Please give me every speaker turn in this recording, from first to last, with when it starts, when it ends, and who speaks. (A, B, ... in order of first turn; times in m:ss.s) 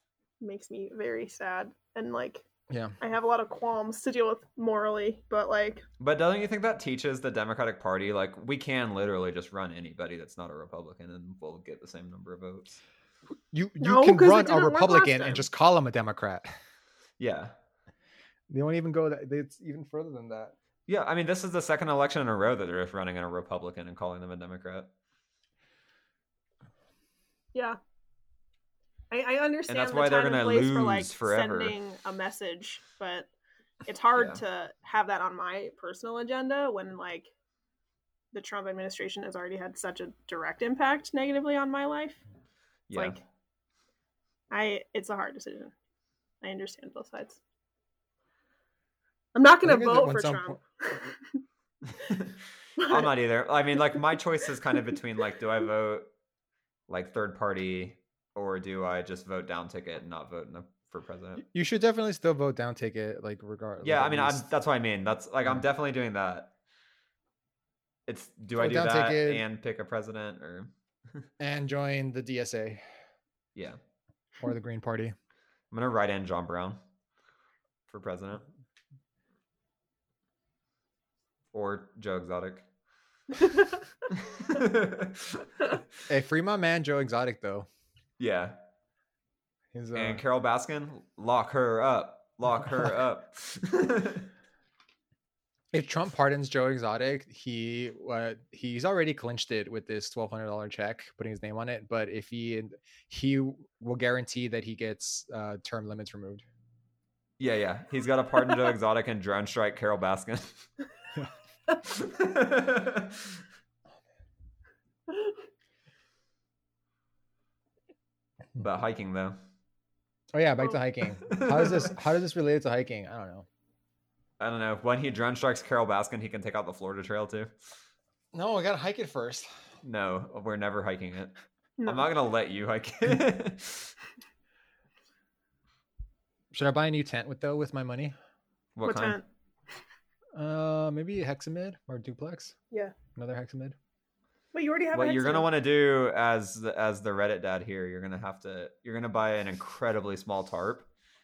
0:00.4-0:02.4 A
0:02.7-0:03.0 B
0:03.0-0:05.8 A
0:06.0-0:12.8 C
0:13.5-0:16.5 B
0:13.8-0:15.4 A
0:17.2-0:17.5 C
0:18.5-0:20.5 B
0:20.9-0:24.9 C
0:29.1-0:33.3 A
0:29.7-0:31.8 C
0:33.8-0:37.3 A
0:34.1-0:34.4 C
0:38.3-0:42.2 A
0:42.9-0:43.2 C
0:42.9-0:43.2 A
0:44.5-0:45.7 A
0:46.4-0:47.4 A
0:49.3-0:51.4 A
0:49.6-0:50.6 B
0:51.9-0:56.1 C
0:52.8-0:53.1 A
0:56.9-1:01.4 C
1:01.4-1:04.5 B
1:03.8-1:06.5 C
1:08.1-1:11.2 C
1:08.6-1:09.4 B
1:11.4-1:12.8 B
1:14.4-1:15.1 B
1:15.7-1:16.8 C
1:17.9-1:18.4 C
1:21.5-1:22.6 C
1:24.2-1:25.5 C
1:26.1-1:27.7 B
1:28.2-1:28.6 C
1:29.7-1:30.2 B
1:29.9-1:34.3 C
1:35.7-1:46.4 B
1:47.4-1:50.7 C
1:51.8-1:53.4 C
1:58.6-1:59.4 C
2:00.3-2:03.5 B
2:01.2-2:01.9 C
2:04.4-2:07.5 C
2:08.3-2:09.5 B
2:09.8-2:11.3 C
2:11.8-2:12.1 A
2:11.8-2:13.9 C
2:16.5-2:18.1 B
2:18.8-2:19.2 C
2:18.8-2:19.2 A
2:20.3-2:22.5 B
2:23.1-2:23.8 B
2:24.5-2:25.5 A
2:24.9-2:30.9 C